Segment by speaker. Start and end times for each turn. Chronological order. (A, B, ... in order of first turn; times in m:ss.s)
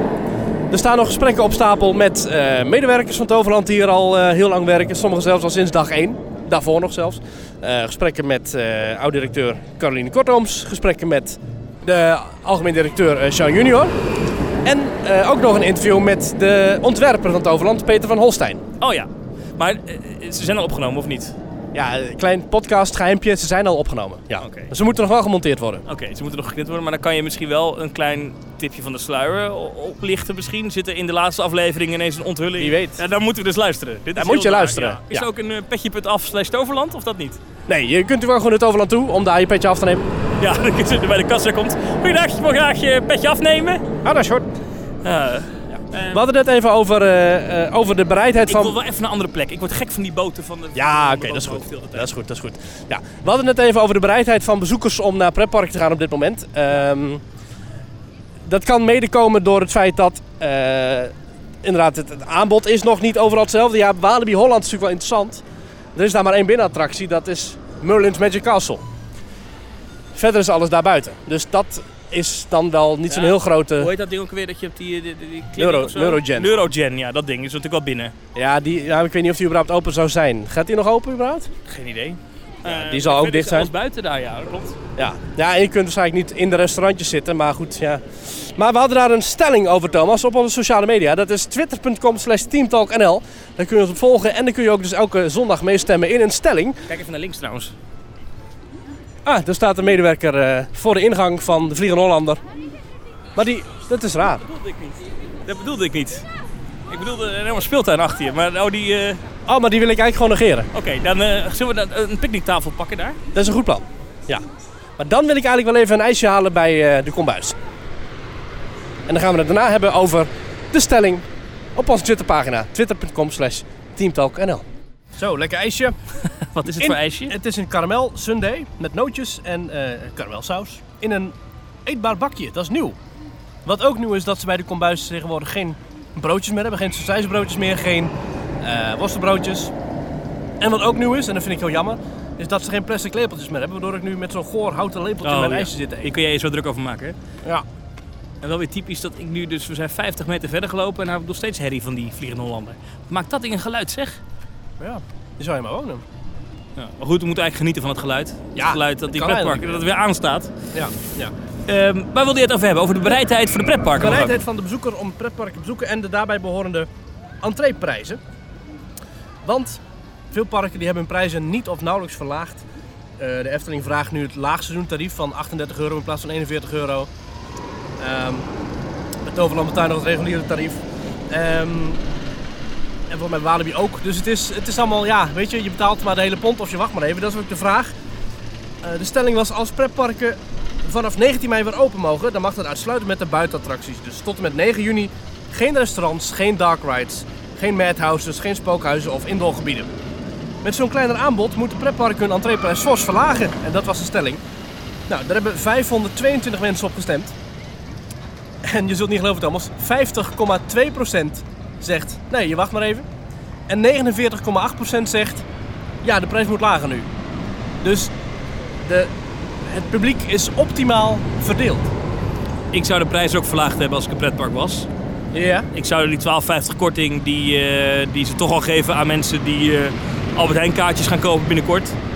0:00.7-0:14.0 A
0:14.6-0:18.6 A
0:18.8-0:21.4 B
0:21.7-0:25.8 A
0:24.4-0:24.7 B
0:25.8-0:37.4 B
0:32.6-0:33.0 A
0:34.2-0:35.3 A
0:37.7-0:40.0 A
0:40.4-0:43.9 B
0:44.0-0:44.5 A
0:45.0-0:46.2 B
0:46.1-0:48.8 A
0:48.4-0:52.1 B
0:50.7-0:57.2 A
0:58.4-1:05.4 A
1:06.0-1:08.8 A
1:10.1-1:13.9 A
1:13.1-1:18.1 B
1:15.6-1:16.5 A
1:18.3-1:21.5 A
1:21.6-1:24.8 B
1:22.6-1:23.7 A
1:25.0-1:36.8 A
1:36.9-1:37.7 B
1:39.2-1:42.4 A
1:43.4-1:44.4 A
1:44.5-1:46.2 B
1:46.9-1:49.2 B
1:49.4-1:50.7 A
1:50.7-1:53.2 B
1:53.3-1:54.4 A
1:55.0-1:57.6 A
1:59.1-2:06.0 A
2:06.2-2:07.4 B
2:06.8-2:11.3 A
2:11.8-2:13.0 A
2:13.6-2:19.7 A
2:20.6-2:26.1 A
2:25.2-2:27.2 B
2:28.4-2:34.2 B
2:34.8-2:36.0 A
2:36.8-2:40.5 B
2:38.6-2:39.8 A
2:40.7-2:41.3 A
2:41.7-2:44.3 B
2:44.0-2:46.9 A
2:47.4-2:48.2 A
2:49.4-2:52.6 A
2:53.2-2:57.1 A
2:58.0-2:58.5 A
2:59.2-3:02.0 A
3:03.1-3:07.9 A
3:08.8-3:19.9 A
3:20.6-3:24.4 A
3:25.1-3:27.3 A
3:28.6-3:33.1 A
3:33.7-3:35.4 A
3:36.0-3:37.1 A
3:37.8-3:38.1 A
3:38.8-3:41.9 A
3:42.7-3:44.9 B
3:45.3-3:45.7 A
3:45.7-3:52.0 B